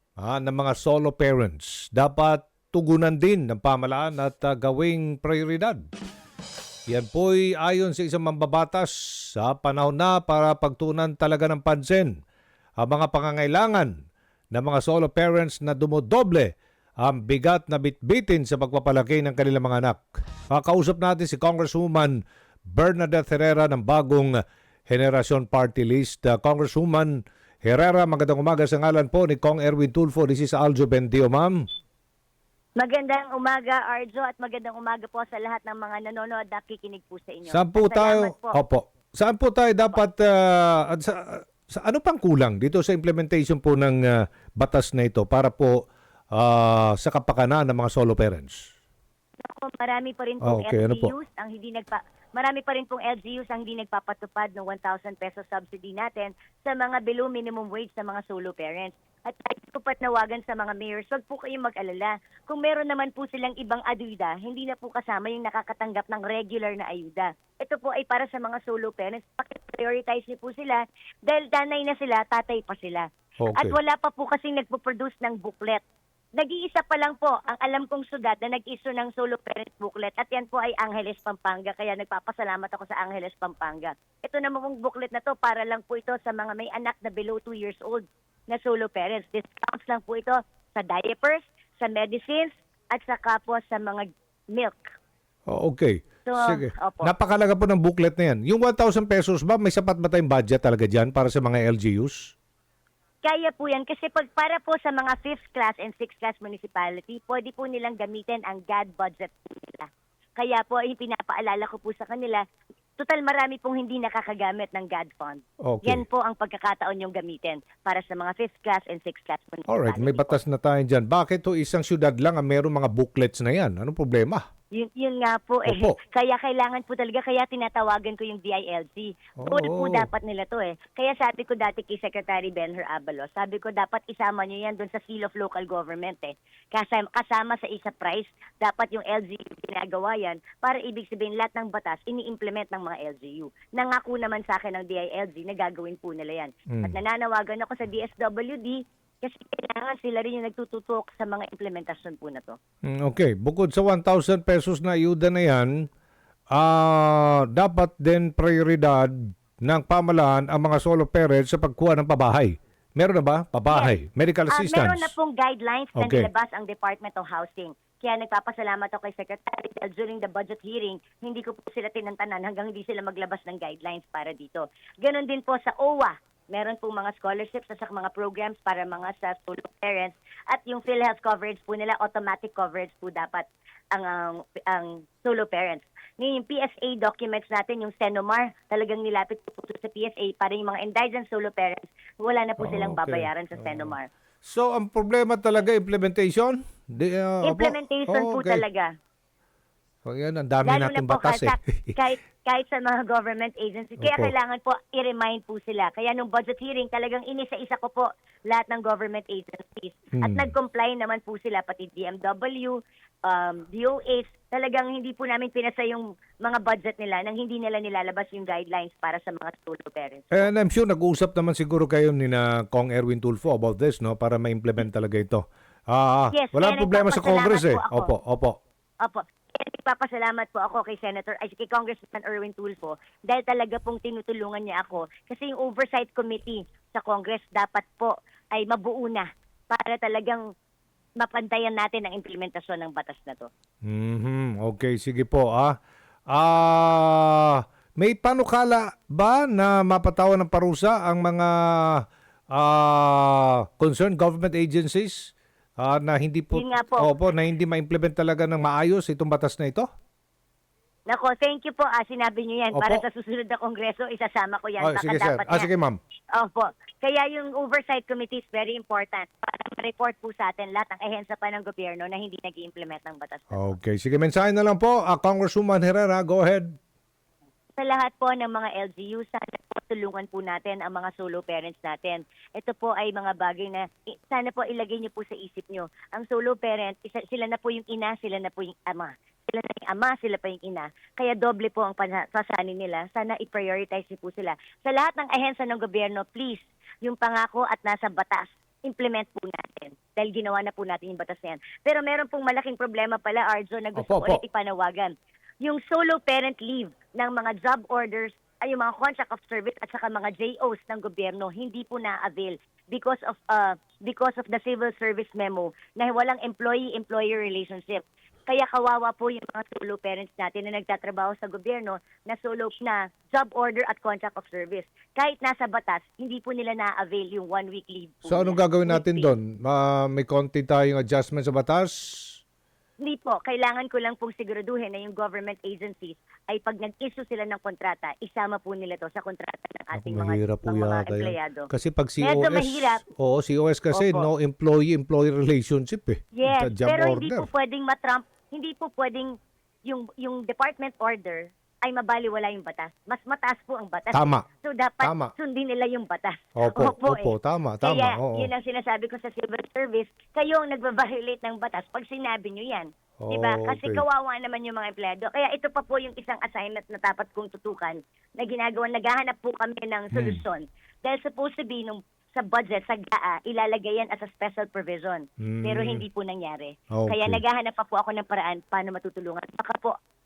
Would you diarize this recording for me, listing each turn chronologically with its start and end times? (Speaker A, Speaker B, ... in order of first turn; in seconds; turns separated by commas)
Speaker A: 0.2-5.8, Speaker A: 6.9-12.1, Speaker A: 12.8-13.9, Speaker A: 14.5-16.5, Speaker A: 17.0-22.2, Speaker A: 22.7-24.4, Speaker A: 24.9-27.1, Speaker A: 27.6-31.6, Speaker B: 32.8-38.6, Speaker A: 37.5-45.8, Speaker A: 46.3-48.7, Speaker B: 49.4-75.8, Speaker A: 50.4-51.1, Speaker A: 73.4-73.8, Speaker B: 76.4-94.9, Speaker A: 95.5-102.3, Speaker B: 96.3-97.1, Speaker B: 103.2-112.4, Speaker B: 113.0-120.4, Speaker A: 115.6-116.0, Speaker A: 119.7-124.4, Speaker B: 124.7-152.6, Speaker A: 125.7-126.0, Speaker A: 129.4-130.1, Speaker A: 146.7-147.0, Speaker A: 152.9-155.7, Speaker A: 156.5-165.1, Speaker B: 164.5-194.1, Speaker A: 166.0-166.3, Speaker A: 192.6-198.6, Speaker B: 197.4-198.9, Speaker A: 200.1-201.9, Speaker B: 200.6-220.5, Speaker A: 204.0-204.3, Speaker A: 210.2-210.5, Speaker A: 220.3-228.6, Speaker B: 226.3-228.1, Speaker B: 229.0-240.4, Speaker B: 241.2-243.5, Speaker A: 243.9-245.7, Speaker A: 246.3-252.0, Speaker A: 252.5-259.9, Speaker B: 256.5-257.1, Speaker B: 261.1-265.7, Speaker A: 262.7-263.0, Speaker A: 264.8-266.0, Speaker B: 266.4-273.7, Speaker A: 273.5-276.7, Speaker B: 277.8-329.3, Speaker A: 303.9-304.4, Speaker A: 328.3-332.4, Speaker B: 333.0-341.7, Speaker A: 339.9-347.5, Speaker B: 342.2-343.0, Speaker B: 343.9-344.3, Speaker B: 346.4-349.3, Speaker B: 349.8-379.9, Speaker A: 354.1-354.4, Speaker A: 355.0-355.3, Speaker A: 356.6-358.5, Speaker A: 363.2-364.0, Speaker A: 370.1-370.4, Speaker A: 375.4-376.0, Speaker A: 376.9-377.4